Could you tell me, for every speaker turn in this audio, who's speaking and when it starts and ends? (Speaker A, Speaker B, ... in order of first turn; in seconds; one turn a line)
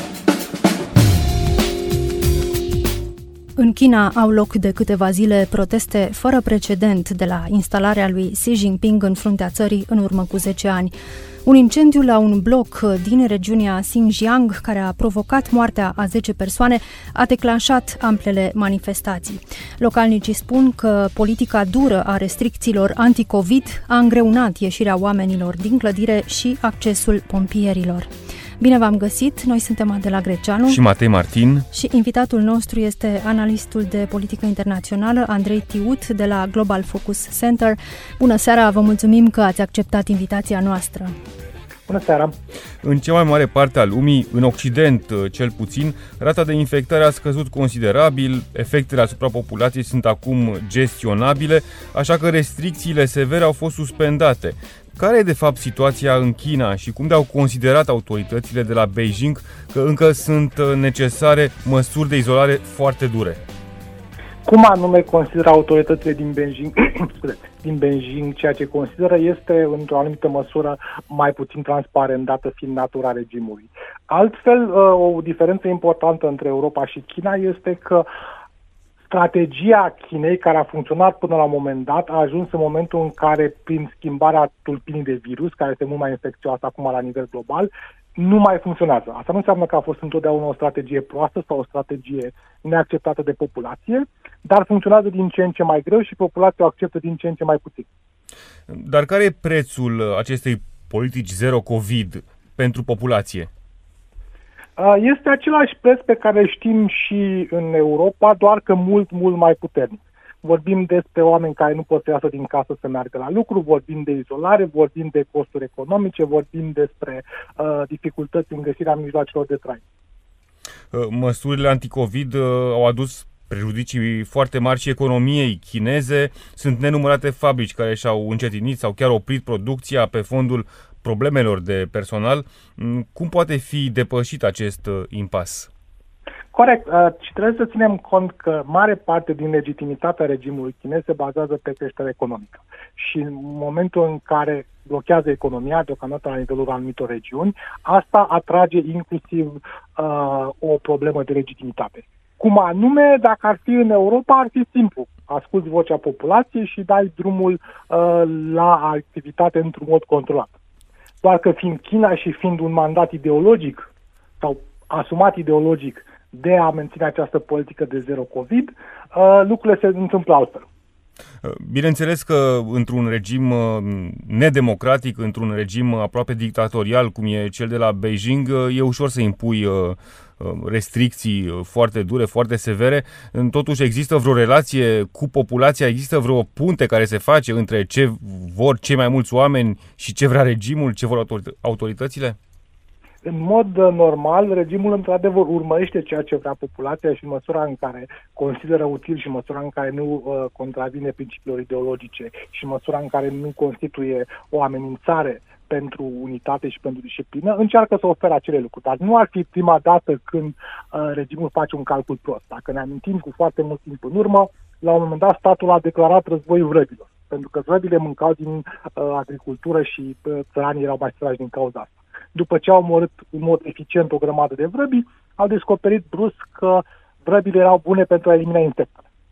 Speaker A: 3.6-30.8
Speaker B: 30.7-31.7
Speaker A: 31.7-41.1
Speaker C: 41.9-42.4
Speaker B: 42.8-63.4
Speaker C: 64.5-78.1
Speaker C: 79.1-97.9
Speaker B: 98.7-103.5
Speaker C: 104.8-119.8
Speaker B: 120.9-135.7
Speaker C: 136.5-160.5
Speaker C: 161.2-163.9
Speaker C: 164.4-170.7
Speaker B: 171.4-192.4
Speaker C: 193.2-229.0